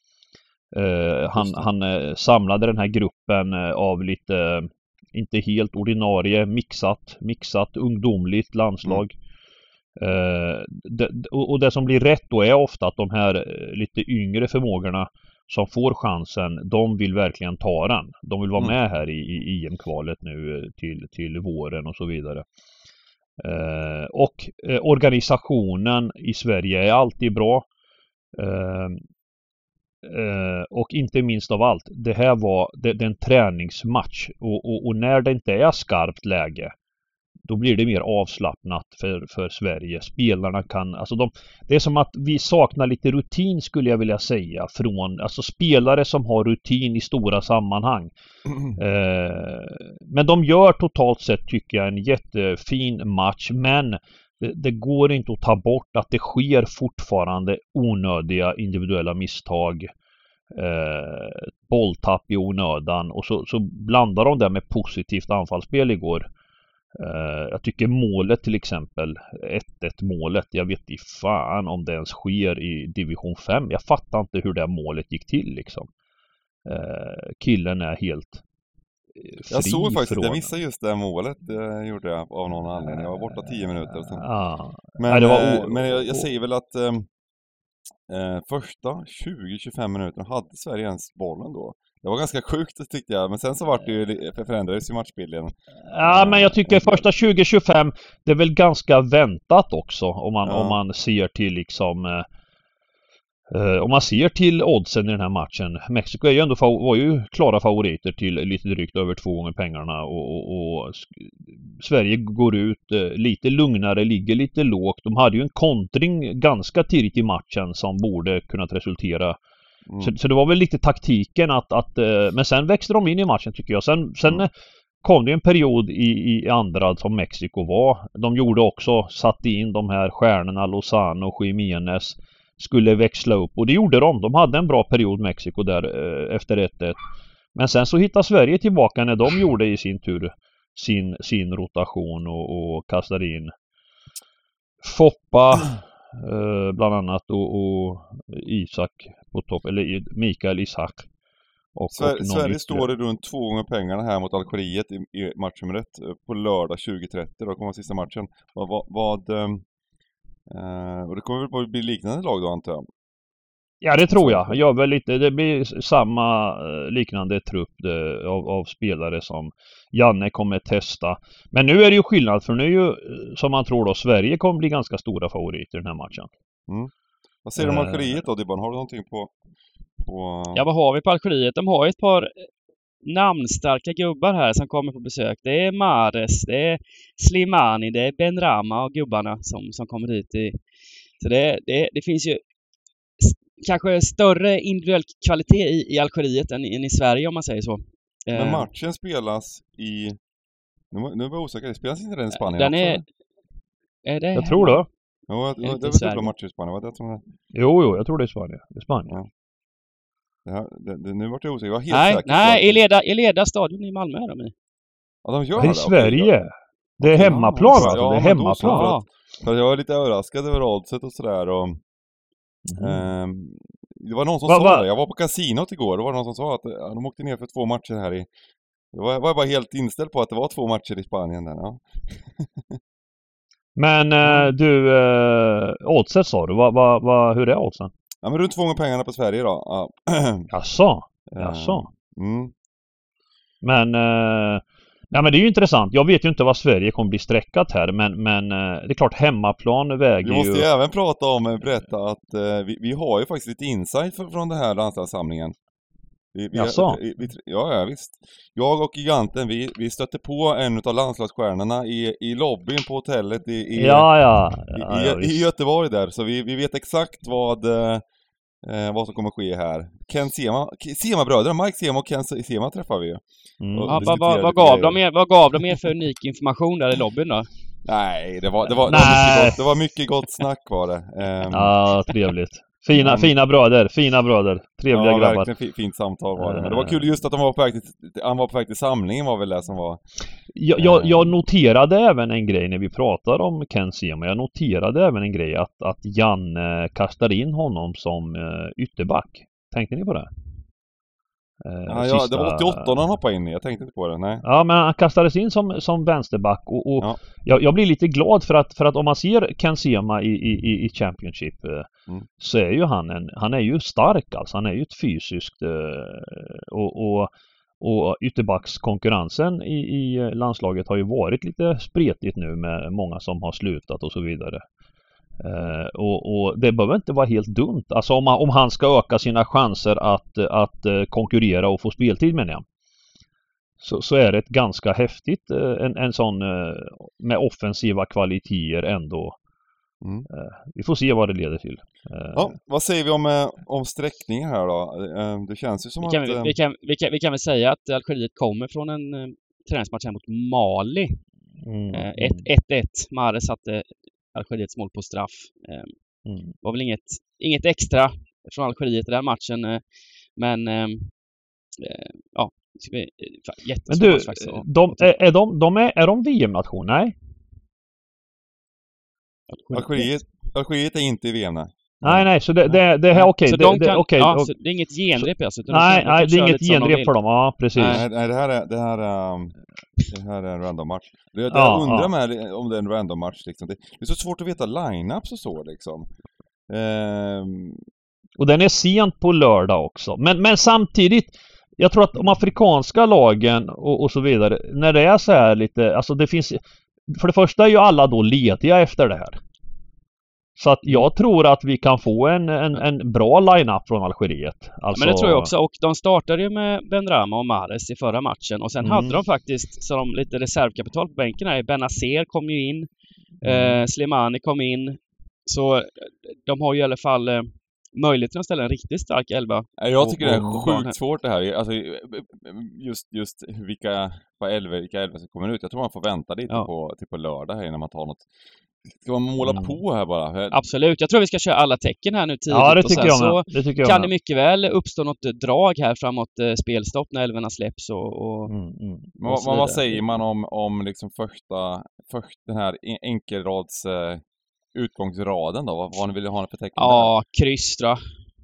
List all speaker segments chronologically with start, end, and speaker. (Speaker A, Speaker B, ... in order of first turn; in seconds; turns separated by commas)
Speaker A: 0.7-9.2, Speaker B: 1.4-1.6, Speaker A: 10.0-22.5, Speaker A: 23.4-27.7, Speaker A: 28.4-29.0, Speaker A: 30.0-36.7, Speaker A: 37.5-48.1, Speaker A: 48.8-59.9, Speaker A: 60.5-66.3, Speaker A: 67.0-75.9, Speaker A: 76.7-78.4, Speaker A: 79.2-80.5, Speaker B: 79.5-84.3, Speaker A: 82.8-86.2, Speaker B: 85.0-87.1, Speaker B: 88.1-97.0, Speaker A: 95.9-102.3, Speaker B: 100.4-100.8, Speaker A: 103.5-119.4, Speaker B: 119.9-120.2, Speaker A: 120.0-124.5, Speaker A: 125.0-137.0, Speaker A: 137.6-143.5, Speaker A: 144.8-151.1, Speaker A: 151.8-152.9, Speaker B: 151.9-159.6, Speaker B: 160.5-162.9, Speaker A: 163.8-176.3, Speaker B: 164.0-164.6, Speaker B: 177.4-179.3, Speaker A: 177.6-178.2, Speaker B: 180.0-180.6, Speaker C: 180.6-182.5, Speaker C: 183.0-190.6, Speaker C: 191.2-192.4, Speaker C: 193.2-198.7, Speaker B: 198.3-200.2, Speaker B: 200.9-203.0, Speaker C: 202.3-203.0, Speaker C: 204.1-204.8, Speaker A: 204.3-204.9, Speaker B: 205.3-207.2, Speaker C: 205.6-206.3, Speaker A: 207.5-209.1, Speaker B: 210.5-212.8, Speaker C: 211.9-214.5, Speaker B: 215.2-216.3, Speaker A: 215.6-218.9, Speaker B: 217.0-221.8, Speaker C: 218.6-219.0, Speaker A: 222.7-223.0, Speaker B: 222.8-228.3, Speaker A: 224.5-224.8, Speaker B: 228.9-232.8, Speaker A: 233.8-237.9, Speaker B: 238.2-240.5, Speaker A: 240.5-241.9, Speaker B: 241.3-242.5, Speaker A: 243.6-250.7, Speaker B: 250.2-255.5, Speaker B: 256.4-268.0, Speaker A: 256.5-257.0, Speaker A: 263.8-265.4, Speaker B: 268.6-275.0, Speaker A: 273.6-274.1, Speaker C: 273.9-277.5, Speaker B: 277.9-281.8, Speaker A: 278.9-279.6, Speaker A: 281.5-285.5, Speaker B: 283.0-283.3, Speaker B: 284.9-290.0, Speaker A: 286.4-287.0, Speaker A: 290.5-300.3, Speaker B: 290.8-291.3, Speaker A: 301.6-302.9, Speaker B: 301.9-304.4, Speaker A: 304.4-311.9, Speaker A: 312.4-324.6, Speaker A: 325.4-332.6, Speaker A: 333.8-339.4, Speaker B: 340.0-340.3, Speaker A: 340.3-342.6, Speaker B: 342.3-346.5, Speaker C: 346.0-351.2, Speaker A: 351.6-352.4, Speaker C: 351.9-355.9, Speaker A: 356.3-356.5, Speaker C: 356.6-359.8, Speaker C: 360.4-361.1, Speaker C: 361.8-365.1, Speaker A: 363.9-367.1, Speaker C: 369.5-370.2, Speaker B: 369.7-372.3, Speaker A: 372.0-374.5, Speaker C: 373.1-377.1, Speaker A: 375.2-378.0, Speaker C: 377.8-378.0, Speaker B: 377.9-379.6, Speaker B: 380.1-386.1, Speaker A: 381.5-382.1, Speaker B: 386.7-387.9, Speaker A: 388.4-399.4, Speaker A: 400.6-405.5, Speaker C: 404.9-412.9, Speaker A: 408.8-409.2, Speaker C: 413.4-420.9, Speaker A: 413.4-413.8, Speaker B: 419.8-428.2, Speaker B: 428.9-430.6, Speaker A: 429.4-429.8, Speaker C: 430.5-438.5, Speaker A: 432.5-434.1, Speaker A: 438.5-439.1, Speaker B: 439.2-444.2, Speaker C: 439.3-440.0, Speaker B: 444.7-447.1, Speaker C: 446.8-448.0